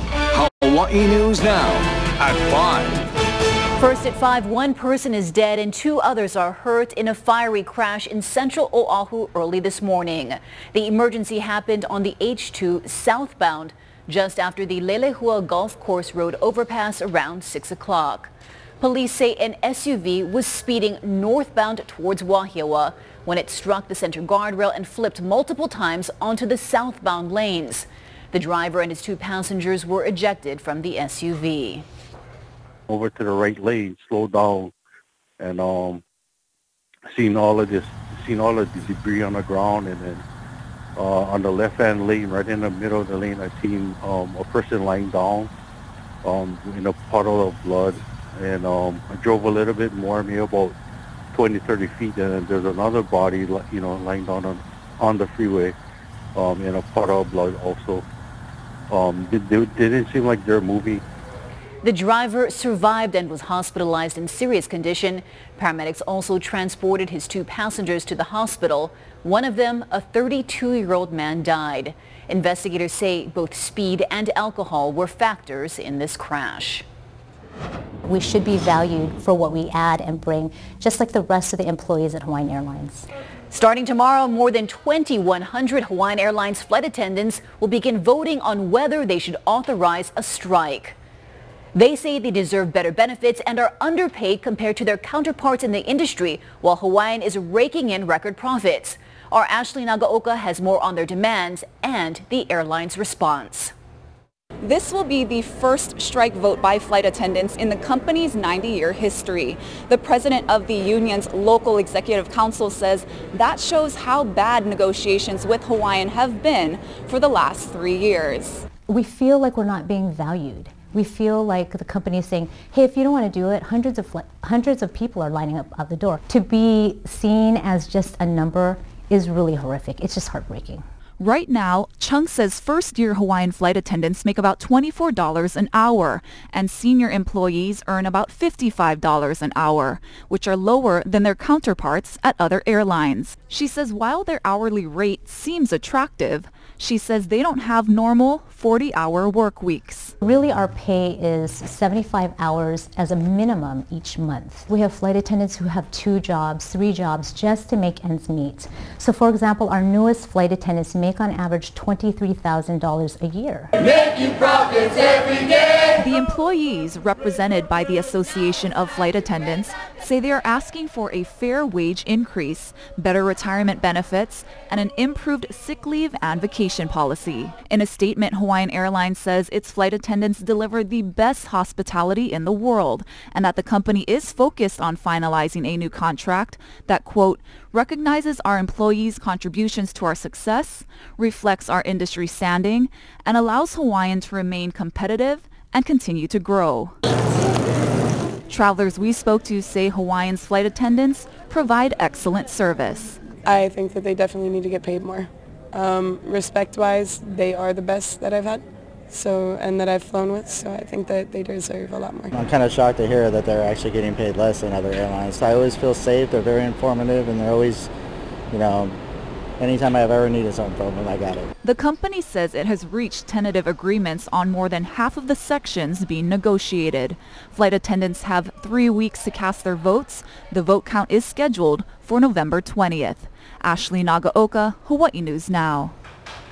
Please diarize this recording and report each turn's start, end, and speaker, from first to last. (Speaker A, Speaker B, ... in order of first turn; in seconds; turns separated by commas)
Speaker A: 0.3-2.8, Speaker B: 3.8-31.9, Speaker C: 32.9-34.7, Speaker C: 35.4-36.0, Speaker C: 37.1-40.2, Speaker C: 41.0-45.5, Speaker C: 46.2-50.8, Speaker C: 51.3-55.7, Speaker C: 56.4-58.0, Speaker C: 58.9-61.0, Speaker B: 61.8-76.9, Speaker D: 78.0-83.1, Speaker B: 83.5-91.0, Speaker B: 91.7-103.7, Speaker E: 104.6-118.7, Speaker D: 118.9-130.8, Speaker E: 131.2-150.1, Speaker D: 150.2-164.9, Speaker E: 165.9-196.9, Speaker E: 198.5-203.2, Speaker F: 203.5-212.3, Speaker G: 212.3-217.9, Speaker G: 218.5-219.0, Speaker G: 219.6-221.5, Speaker E: 221.6-235.9